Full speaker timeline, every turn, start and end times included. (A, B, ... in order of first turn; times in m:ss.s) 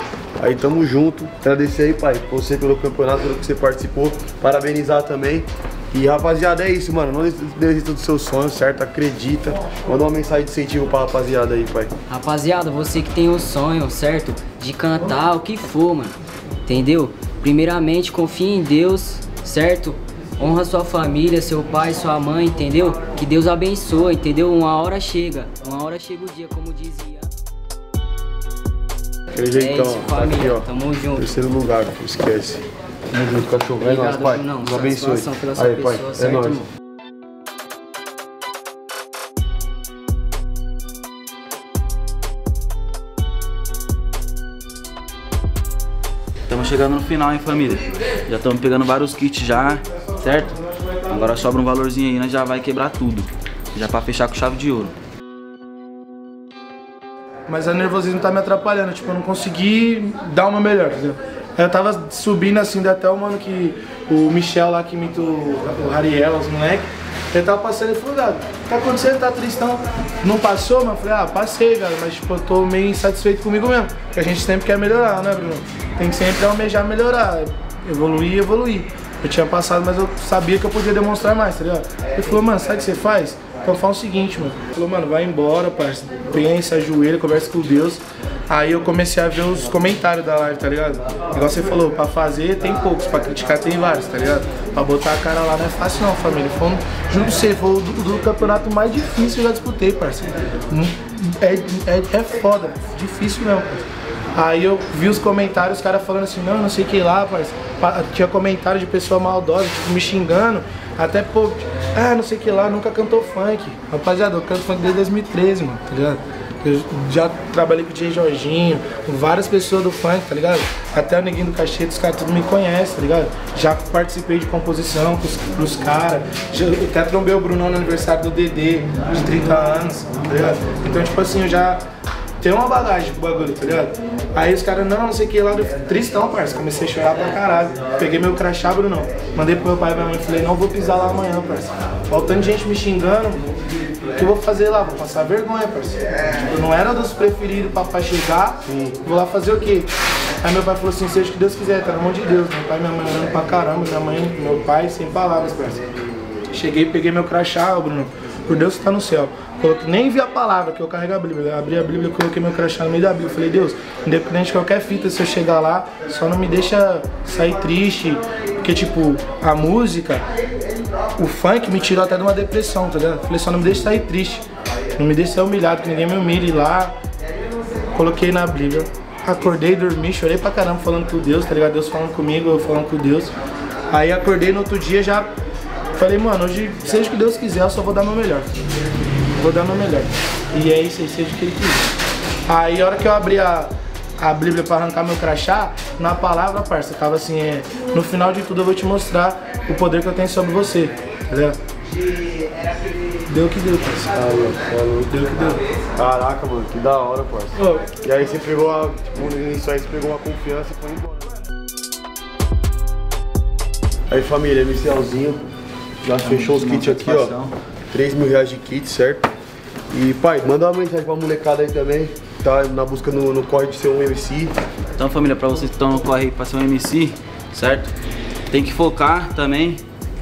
0:00.4-0:11.9 A
0:12.1-0:27.3 B
0:29.3-0:36.6 A
0:29.5-0:31.2 B
0:33.8-0:36.7 B
0:46.5-0:54.9 C
0:50.2-0:51.1 D
0:57.5-2:11.8 D
2:12.4-2:23.4 D
2:24.2-2:35.9 D
2:28.6-2:29.0 A
2:36.5-2:50.2 D
2:51.2-2:54.4 D
2:55.0-2:57.0 D
2:57.9-3:03.3 D
3:03.9-3:05.3 D
3:05.9-3:08.5 D
3:09.4-3:11.9 D
3:12.5-3:21.6 D
3:23.3-3:24.1 D
3:24.1-3:25.1 A
3:25.1-3:25.6 D
3:26.0-3:31.3 A
3:27.6-3:27.9 D
3:34.1-3:35.4 A
3:36.0-3:37.3 A
3:36.1-3:37.5 C
3:37.9-3:39.3 A
3:39.9-3:44.5 A
3:45.0-3:47.9 C
3:48.5-3:49.8 C